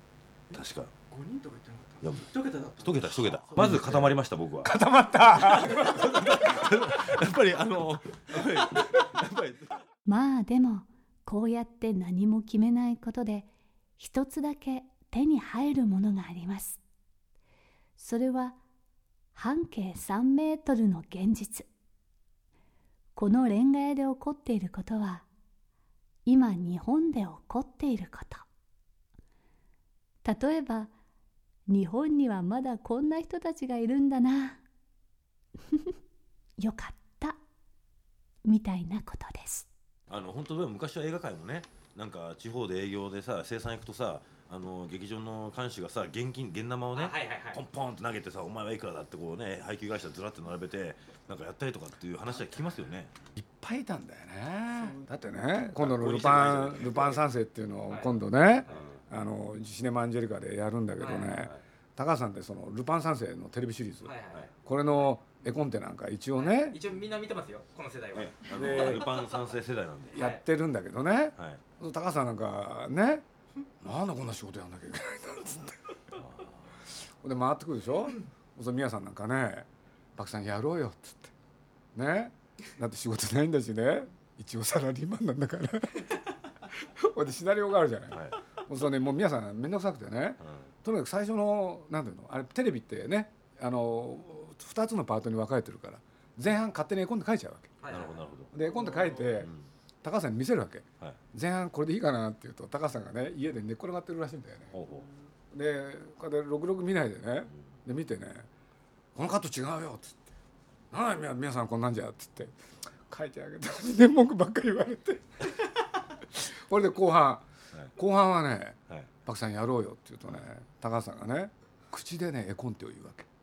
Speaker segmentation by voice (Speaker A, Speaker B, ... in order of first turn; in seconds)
Speaker A: 0.5-0.9, 2.0-4.8, 5.5-9.8, 40.1-53.1, 55.7-57.2, 58.7-59.0, 61.3-61.6, 68.1-70.2, 71.4-71.6, 88.1-88.4, 90.4-90.7, 97.9-98.5, 99.2-99.7, 104.7-105.1
Speaker B: 1.1-4.2
Speaker C: 4.6-6.2, 53.3-66.8, 68.5-69.1, 70.1-73.2, 73.8-75.8, 77.2-81.3, 81.9-86.2, 86.7-97.7, 98.5-99.5, 100.0-104.8, 105.5-108.5, 109.1-110.2, 110.9-112.5, 113.1-115.5, 116.3-123.3
Speaker D: 10.1-16.8, 18.0-18.6, 19.3-21.7, 23.1-25.2, 26.2-28.4, 30.2-30.9, 31.7-34.6, 35.7-35.9, 36.6-37.4, 38.4-39.7
Speaker E: 46.9-47.6, 61.0-61.3, 64.0-65.1, 66.3-69.0, 70.1-70.4, 97.8-98.2